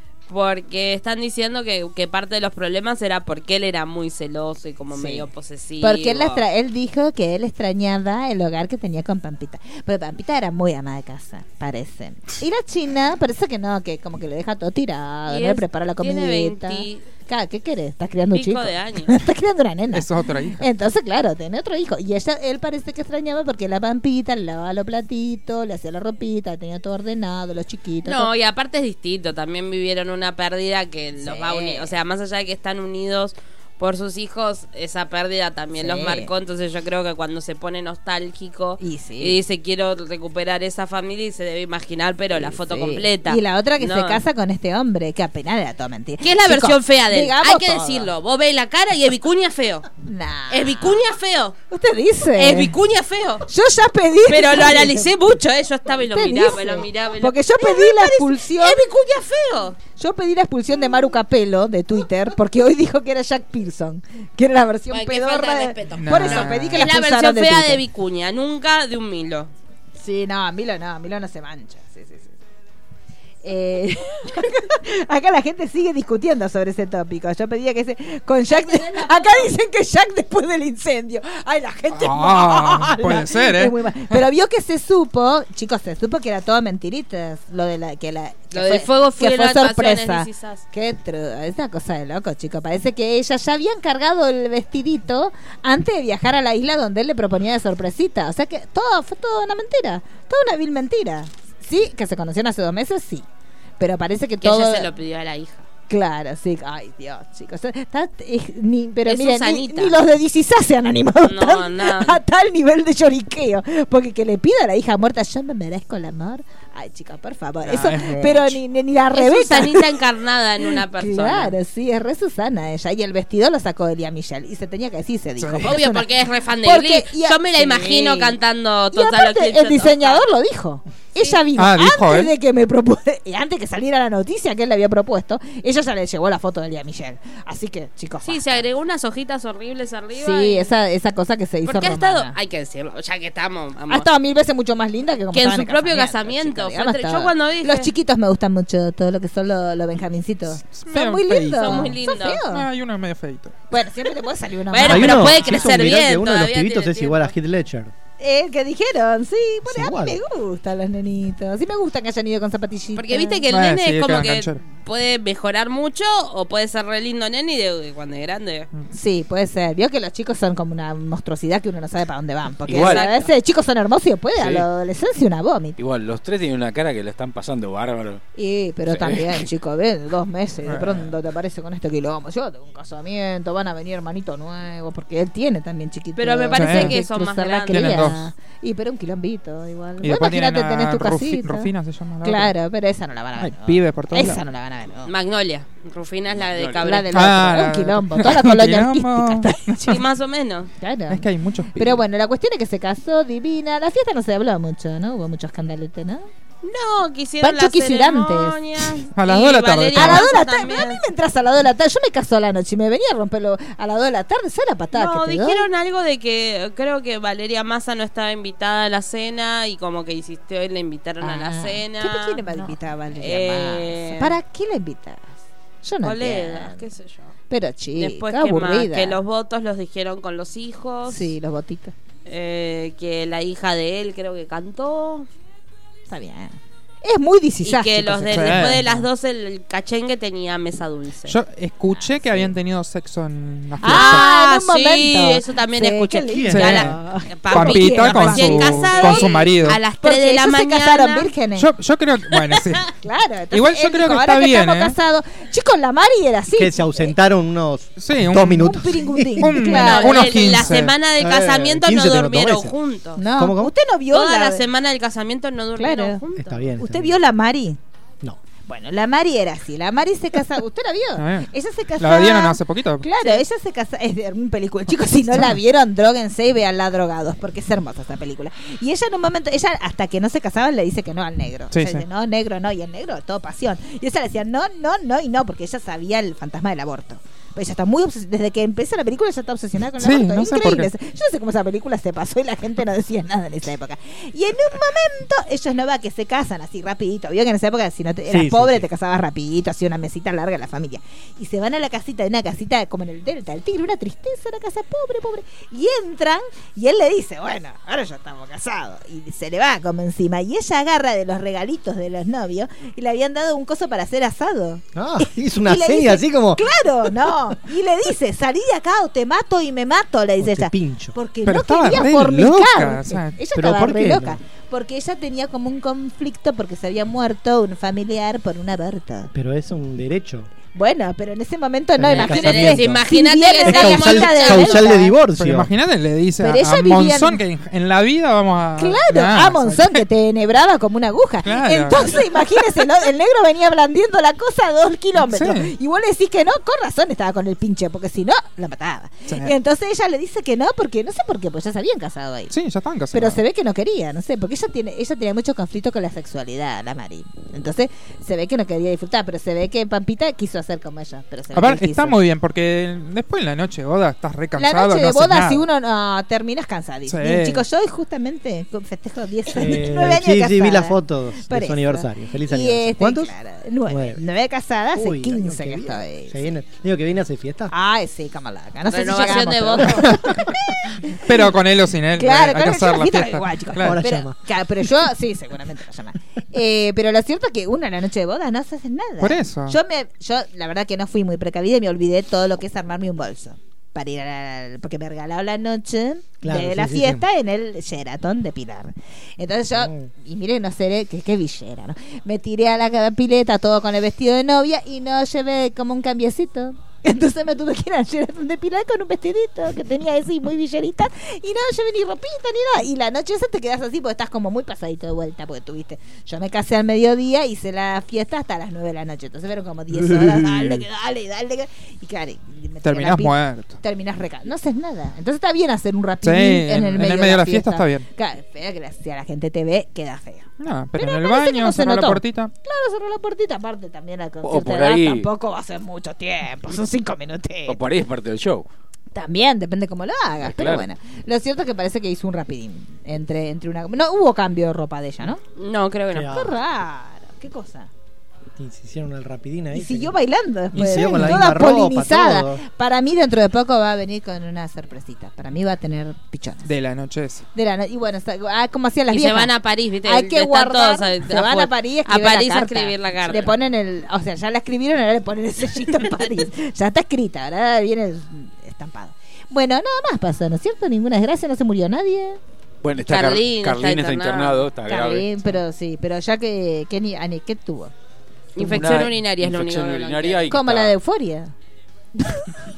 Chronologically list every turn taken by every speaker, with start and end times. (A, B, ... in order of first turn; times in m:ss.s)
0:00.3-0:06.4 A
0:04.9-0:05.3 B
0:05.8-0:28.3 B
0:15.3-0:17.1 A
0:18.3-0:19.2 A
0:19.9-0:20.7 C
0:28.0-0:44.2 A
0:31.2-0:31.9 B
0:35.8-0:36.3 B
0:38.8-0:39.4 B
0:42.4-0:48.1 B
0:46.2-0:49.9 A
0:50.0-0:51.0 B
0:50.5-0:51.6 A
0:51.7-0:52.8 B
0:52.4-0:53.5 A
0:53.5-0:55.1 B
0:54.3-0:59.8 A
0:56.1-0:58.9 B
0:59.8-1:07.8 B
1:04.9-1:09.5 A
1:06.0-1:06.9 C
1:10.0-1:12.4 B
1:13.4-1:43.2 B
1:18.5-1:19.5 A
1:21.9-1:24.2 C
1:28.5-1:30.6 A
1:43.8-1:44.9 B
1:44.4-1:45.7 A
1:45.9-2:00.0 B
1:49.1-1:50.0 A
1:51.2-1:52.2 A
1:57.6-1:58.5 C
1:59.1-2:01.6 A
2:00.6-2:08.4 B
2:05.4-2:05.8 C
2:05.6-2:10.3 A
2:08.9-2:18.6 B
2:11.6-2:12.3 C
2:18.2-2:20.7 A
2:20.2-2:22.4 B
2:21.6-2:24.1 A
2:23.9-2:32.7 B
2:25.3-2:27.9 A
2:30.6-2:32.0 C
2:31.5-2:32.4 A
2:32.5-2:33.6 C
2:33.7-2:35.9 B
2:34.7-2:37.4 A
2:34.9-2:37.9 D
2:38.2-2:43.4 B
2:39.7-2:40.2 D
2:43.0-2:48.7 A
2:43.5-2:44.6 C
2:48.9-2:55.8 B
2:52.7-2:53.1 E
2:52.7-2:53.3 A
2:54.4-2:54.7 E
2:55.8-2:58.2 E
2:58.4-3:11.7 B
2:58.9-2:59.4 E
3:00.7-3:01.1 C
3:06.2-3:08.1 A
3:06.6-3:07.0 C
3:07.7-3:08.3 C
3:10.0-3:12.5 C
3:12.2-3:15.1 B
3:13.4-3:14.4 C
3:15.1-3:17.2 A
3:16.4-3:16.8 E
3:16.8-3:20.0 B
3:17.1-3:19.9 C
3:19.8-3:20.7 A
3:20.8-3:26.3 B
3:21.1-3:21.8 C
3:26.6-3:31.0 A
3:27.4-3:28.6 B
3:29.2-3:30.3 C
3:30.0-3:35.7 B
3:34.9-3:44.4 A
3:41.2-3:46.8 B
3:46.0-3:47.3 A
3:47.5-3:49.2 B
3:48.0-3:51.4 A
3:51.1-3:51.9 B
3:52.3-3:55.3 A
3:56.1-3:59.0 B
3:57.6-4:01.4 A
3:58.3-3:58.8 C
4:01.3-4:04.3 C
4:01.9-4:02.5 B
4:03.8-4:11.7 B
4:03.8-4:06.9 A
4:06.3-4:07.0 D
4:06.5-4:07.0 C
4:07.4-4:11.3 A
4:07.5-4:09.8 C
4:11.6-4:12.9 C
4:12.9-4:17.1 B
4:13.5-4:15.0 C
4:16.6-4:19.5 D
4:18.0-4:18.8 C
4:18.6-4:20.7 B
4:19.4-4:20.9 C
4:19.7-4:23.2 A
4:21.1-4:22.8 D
4:23.2-4:24.6 B
4:23.3-4:23.7 D
4:24.1-4:26.7 A
4:25.8-4:26.2 B
4:26.4-4:27.2 D
4:26.8-4:27.8 B
4:28.7-5:29.3 B
4:31.2-4:33.1 C
4:41.7-4:42.0 C
4:50.0-4:50.9 C
4:58.3-4:58.9 D
5:15.0-5:16.6 D
5:20.4-5:21.2 D
5:21.5-5:23.4 C
5:23.6-5:24.4 D
5:29.3-5:30.5 D
5:30.7-5:35.1 B
5:32.0-5:33.0 D
5:32.1-5:35.0 A
5:33.6-5:35.7 D
5:35.4-5:40.0 C
5:36.4-5:37.4 B
5:38.8-5:52.5 B
5:41.4-5:42.6 C
5:45.2-5:45.7 C
5:49.3-5:49.5 C
5:52.5-5:53.4 C
5:53.1-6:02.2 B
6:01.5-6:05.6 C
6:04.6-6:16.5 B
6:07.1-6:07.7 C
6:09.5-6:13.3 D
6:13.9-6:14.2 D
6:14.9-6:17.7 D
6:17.7-6:21.5 B
6:18.9-6:20.3 A
6:21.2-6:24.0 C
6:22.1-7:17.8 B
6:23.8-6:24.4 D
6:29.2-6:29.8 C
6:36.4-6:37.2 D
6:39.7-6:40.1 D
6:59.9-7:00.8 D
7:02.8-7:03.8 C
7:06.2-7:08.0 C
7:10.6-7:12.5 C
7:14.4-7:15.3 E
7:17.7-7:18.7 E
7:19.1-7:25.4 B
7:20.4-7:20.9 E
7:25.6-7:26.3 A
7:26.1-7:26.6 D
7:26.3-7:27.9 B
7:28.6-7:30.2 D
7:29.7-7:36.7 B
7:30.7-7:32.6 D
7:36.6-7:37.4 C
7:37.6-7:52.4 B
7:39.1-7:43.5 A
7:52.8-7:55.6 E
7:53.0-7:54.7 A
7:54.9-7:57.9 B
7:58.6-8:00.5 A
7:58.6-8:01.0 E
8:00.5-8:01.5 B
8:02.2-8:02.5 B